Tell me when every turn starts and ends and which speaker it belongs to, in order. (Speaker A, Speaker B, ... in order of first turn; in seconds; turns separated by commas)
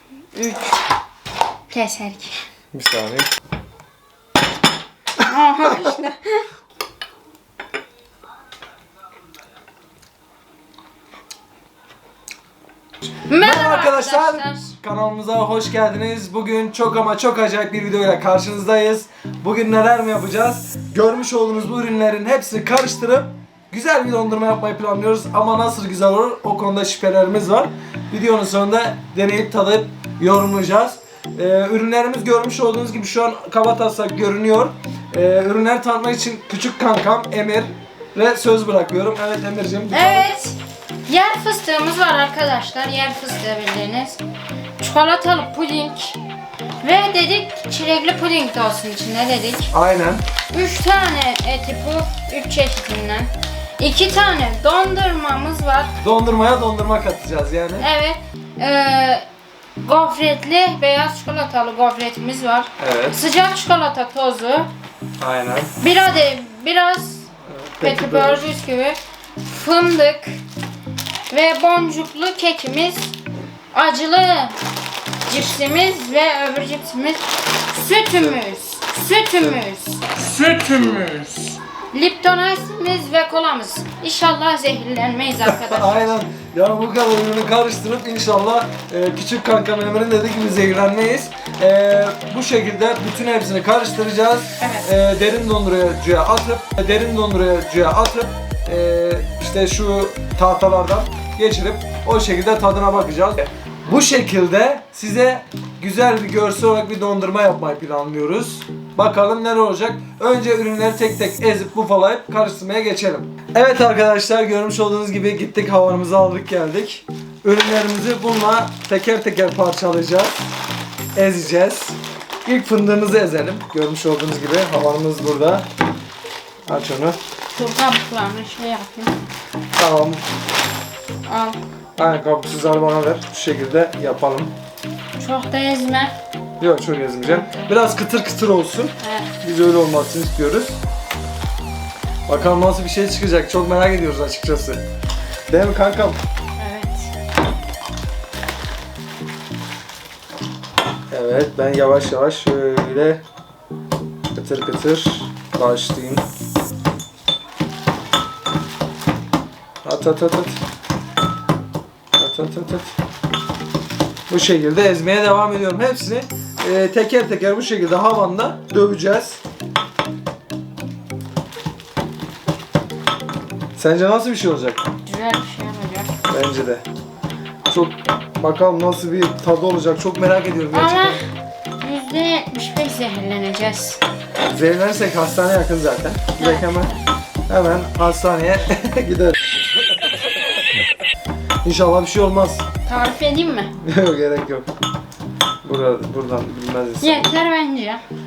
Speaker A: 0.3-0.8, Speaker A: 1.7-2.4, Speaker B: 2.7-3.3, Speaker A: 5.2-6.5, Speaker A: 13.3-14.7, Speaker B: 13.4-40.3, Speaker A: 39.9-44.2, Speaker A: 44.8-46.2, Speaker A: 46.8-49.7, Speaker B: 49.7-50.2, Speaker A: 50.5-55.9, Speaker B: 56.0-57.9, Speaker A: 57.8-59.3, Speaker A: 59.8-64.7, Speaker B: 62.8-63.2, Speaker B: 65.2-65.7, Speaker A: 65.8-67.3, Speaker B: 67.5-68.5, Speaker A: 67.8-70.4, Speaker A: 71.3-73.2, Speaker A: 73.7-74.6, Speaker A: 75.3-80.1, Speaker B: 80.2-81.6, Speaker A: 81.9-86.2, Speaker B: 85.4-120.5, Speaker A: 94.6-94.9, Speaker B: 121.2-125.7, Speaker B: 126.7-127.2, Speaker A: 127.5-129.1, Speaker B: 129.8-130.2, Speaker A: 131.3-131.6, Speaker B: 132.0-134.5, Speaker A: 135.2-136.1, Speaker B: 136.6-140.8, Speaker A: 137.3-137.7, Speaker A: 139.0-139.3, Speaker B: 142.3-144.8, Speaker B: 145.5-146.2, Speaker A: 146.6-147.1, Speaker B: 151.1-153.2, Speaker B: 154.3-156.2, Speaker B: 159.8-160.6, Speaker B: 162.2-162.9, Speaker B: 164.3-169.4, Speaker B: 173.8-174.8, Speaker A: 175.1-176.1, Speaker B: 176.3-176.8, Speaker B: 177.7-181.2, Speaker A: 180.7-181.3, Speaker A: 181.8-184.0, Speaker B: 184.5-186.9, Speaker A: 186.4-187.0, Speaker B: 187.5-189.4, Speaker B: 191.6-192.7, Speaker A: 192.8-193.7, Speaker B: 193.8-194.7, Speaker B: 195.6-197.3, Speaker A: 197.0-198.0